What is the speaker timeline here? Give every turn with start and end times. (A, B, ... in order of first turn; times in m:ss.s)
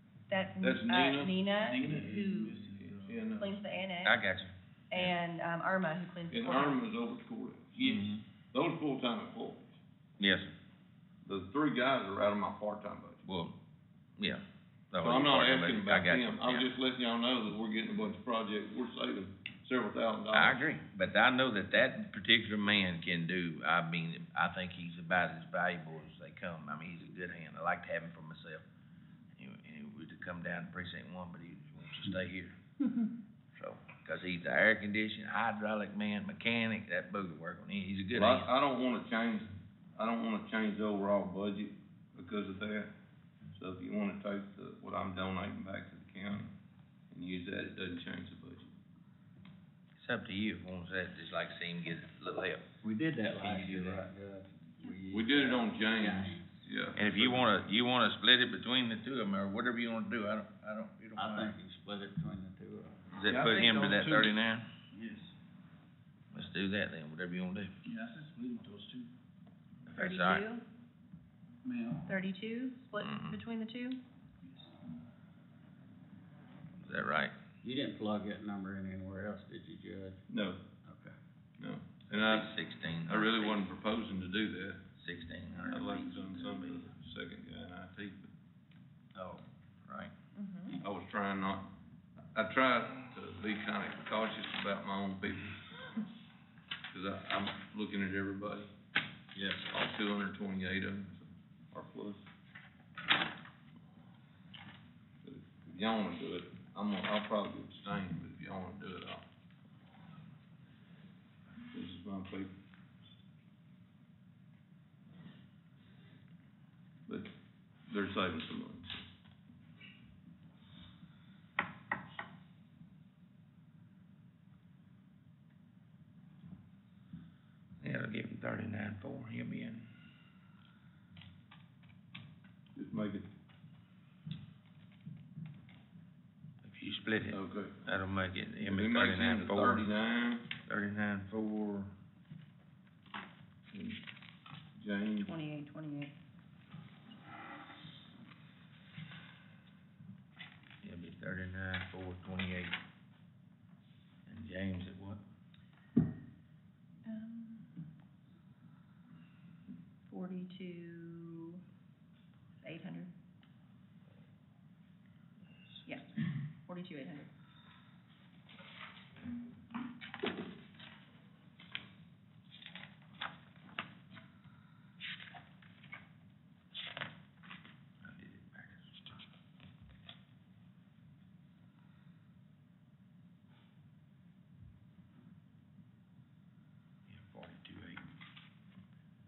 0:00.3-0:02.7 A
0:00.6-0:01.4 B
0:01.7-0:02.8 C
0:02.8-0:03.6 B
0:03.4-0:04.2 A
0:04.0-0:05.2 D
0:04.9-0:06.8 A
0:06.3-0:09.7 B
0:07.8-0:08.2 D
0:10.2-0:10.5 D
0:11.2-0:13.2 B
0:13.3-0:13.6 D
0:14.2-0:16.7 D
0:15.0-0:20.6 B
0:20.3-0:28.6 D
0:29.4-0:32.6 D
0:33.6-0:38.5 D
0:38.2-0:42.9 B
0:43.6-0:46.5 B
0:47.1-0:48.7 B
0:50.0-0:52.6 D
0:52.8-0:56.5 E
0:53.4-0:54.1 D
0:55.1-0:57.6 B
0:57.0-1:01.5 D
1:01.2-1:03.0 E
1:03.1-1:04.7 D
1:03.3-1:04.3 C
1:06.3-1:07.7 D
1:07.9-1:09.1 C
1:09.9-1:10.5 D
1:09.9-1:10.6 A
1:11.7-1:12.0 C
1:12.1-1:14.0 A
1:13.0-1:13.4 D
1:16.8-1:17.3 D
1:17.6-1:20.2 E
1:20.3-1:20.6 B
1:20.8-1:21.2 E
1:21.6-1:22.5 B
1:22.1-1:23.6 D
1:23.0-1:24.8 B
1:25.0-1:26.8 D
1:25.7-1:28.3 B
1:29.2-1:29.4 E
1:29.9-1:30.1 D
1:30.4-1:30.8 A
1:30.8-1:31.7 B
1:32.3-1:35.6 B
1:36.9-1:38.7 B
1:39.4-1:39.7 E
1:39.7-1:42.2 B
1:45.2-1:49.3 B
1:51.7-1:52.5 B
1:57.9-1:59.1 B
2:07.8-2:09.9 D
2:12.8-2:13.3 B
2:16.6-2:19.9 D
2:17.3-2:17.8 B
2:18.6-2:20.5 B
2:20.6-2:21.9 D
2:23.7-2:24.0 B
2:24.8-2:25.4 B
2:25.2-2:26.1 A
2:30.8-2:32.8 D
2:34.3-2:35.2 D
2:37.1-2:37.7 A
2:40.1-2:41.6 A
2:42.6-2:43.1 A
2:45.9-2:46.1 A
2:46.7-2:47.3 A
2:58.0-2:59.2 D
3:07.1-3:08.1 D